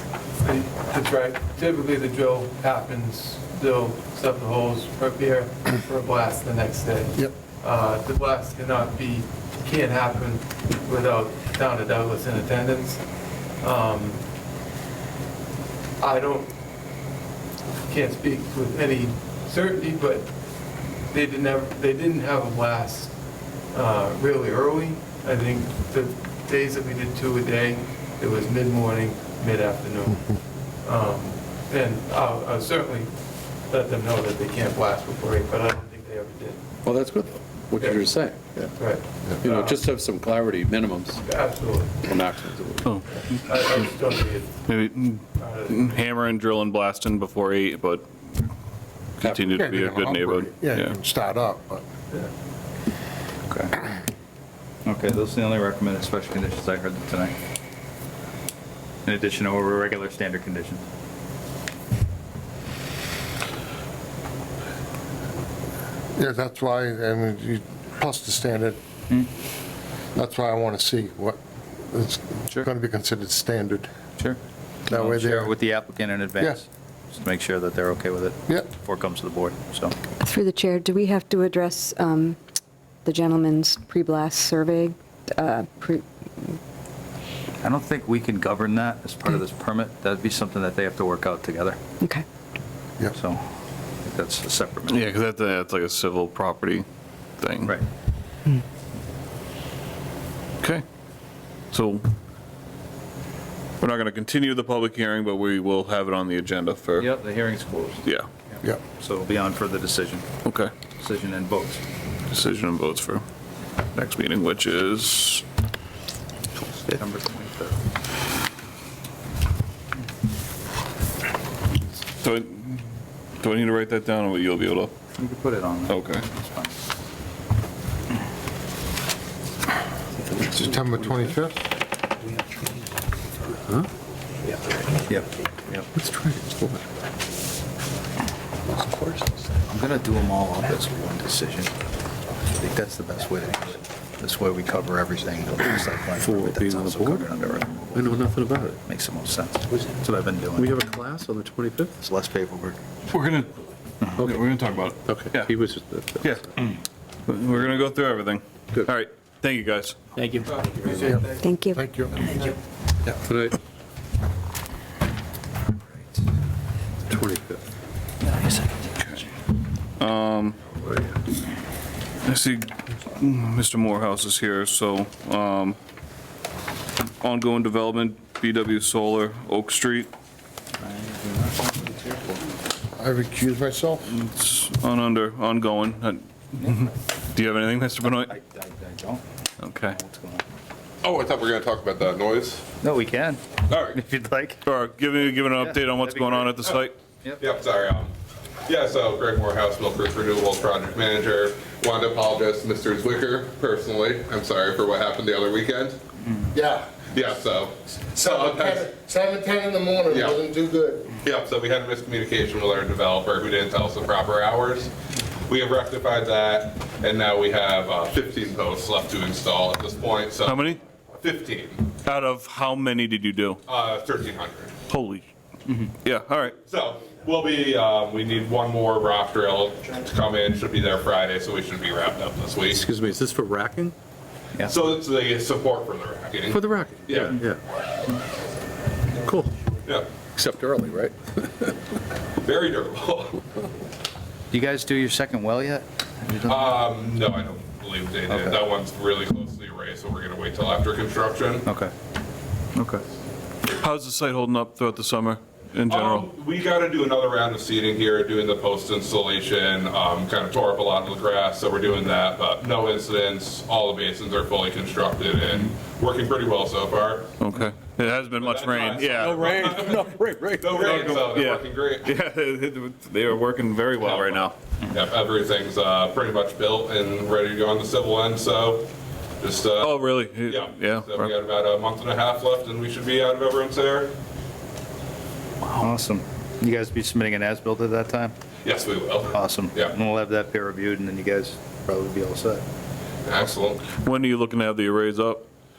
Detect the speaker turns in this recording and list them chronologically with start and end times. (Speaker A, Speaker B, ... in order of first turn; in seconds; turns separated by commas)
Speaker A: 0.4-13.0, Speaker A: 13.6-14.2, Speaker A: 16.0-16.5, Speaker A: 17.9-20.4, Speaker A: 21.1-23.2, Speaker A: 23.7-36.7, Speaker B: 36.8-38.7, Speaker A: 37.8-38.2, Speaker A: 38.7-39.8, Speaker B: 39.4-41.2, Speaker A: 41.2-42.1, Speaker B: 42.0-43.0, Speaker A: 43.1-44.7, Speaker C: 44.7-48.1, Speaker A: 45.4-46.1, Speaker C: 49.2-51.0, Speaker D: 49.2-51.9, Speaker E: 53.5-53.9, Speaker E: 54.9-57.4, Speaker E: 59.0-60.8, Speaker D: 66.2-68.8, Speaker D: 70.2-73.9, Speaker D: 74.9-75.6, Speaker E: 74.9-80.0, Speaker F: 80.2-82.4, Speaker F: 83.0-86.6, Speaker E: 87.6-91.8, Speaker E: 93.1-93.4, Speaker E: 94.0-95.1, Speaker C: 94.9-96.8, Speaker C: 97.4-97.8, Speaker C: 101.7-102.0, Speaker C: 103.8-107.1, Speaker E: 107.0-110.3, Speaker C: 110.4-110.7, Speaker E: 111.0-111.8, Speaker C: 112.3-113.2, Speaker C: 113.9-115.4, Speaker E: 116.6-117.8, Speaker C: 122.2-122.8, Speaker C: 123.4-124.9, Speaker E: 125.1-126.8, Speaker C: 125.9-126.2, Speaker B: 130.2-131.3, Speaker D: 130.5-131.6, Speaker B: 133.5-133.9, Speaker E: 134.7-135.9, Speaker B: 135.9-136.9, Speaker B: 138.7-139.5, Speaker E: 139.7-141.8, Speaker E: 142.4-148.2, Speaker B: 146.2-147.3, Speaker B: 147.9-148.8, Speaker E: 148.7-150.7, Speaker B: 150.6-152.0, Speaker E: 152.0-152.8, Speaker C: 153.1-153.6, Speaker B: 154.2-156.5, Speaker C: 154.2-155.5, Speaker C: 156.2-156.5, Speaker C: 157.3-160.0, Speaker A: 160.4-162.6, Speaker D: 160.8-162.2, Speaker F: 161.4-161.8, Speaker B: 163.2-163.6, Speaker B: 167.1-167.6, Speaker E: 168.2-168.8, Speaker C: 170.0-170.6, Speaker C: 172.2-175.8, Speaker C: 177.2-180.1, Speaker E: 180.8-182.4, Speaker D: 183.0-184.2, Speaker C: 184.1-188.3, Speaker E: 188.0-189.2, Speaker C: 189.6-190.0, Speaker E: 189.8-190.4, Speaker G: 191.0-192.7, Speaker E: 192.8-194.6, Speaker G: 193.7-194.0, Speaker C: 194.7-197.0, Speaker E: 195.5-196.7, Speaker G: 197.4-198.1, Speaker G: 198.7-206.0, Speaker D: 206.5-207.1, Speaker G: 207.1-208.9, Speaker D: 208.1-211.2, Speaker G: 210.1-210.4, Speaker G: 211.2-214.9, Speaker G: 215.5-220.7, Speaker C: 220.4-220.8, Speaker G: 221.2-221.9, Speaker C: 222.0-223.6, Speaker G: 223.7-224.8, Speaker C: 224.9-225.3, Speaker C: 226.0-226.6, Speaker G: 226.6-232.8, Speaker B: 232.7-233.9, Speaker G: 234.7-237.4, Speaker B: 236.5-237.6, Speaker B: 239.2-239.5, Speaker B: 240.3-241.7, Speaker G: 242.4-243.4, Speaker E: 244.5-246.8, Speaker G: 246.4-251.7, Speaker E: 248.3-248.6, Speaker E: 251.7-251.9, Speaker E: 252.7-253.0, Speaker C: 253.8-256.3, Speaker G: 255.9-267.3, Speaker C: 267.4-269.9, Speaker G: 268.3-272.1, Speaker B: 269.2-271.2, Speaker C: 271.2-274.6, Speaker G: 274.0-278.9, Speaker G: 279.4-279.9, Speaker C: 279.8-281.3, Speaker G: 280.5-284.1, Speaker E: 285.6-288.4, Speaker G: 288.6-289.9, Speaker E: 289.3-292.6, Speaker G: 293.3-293.9, Speaker C: 294.0-295.5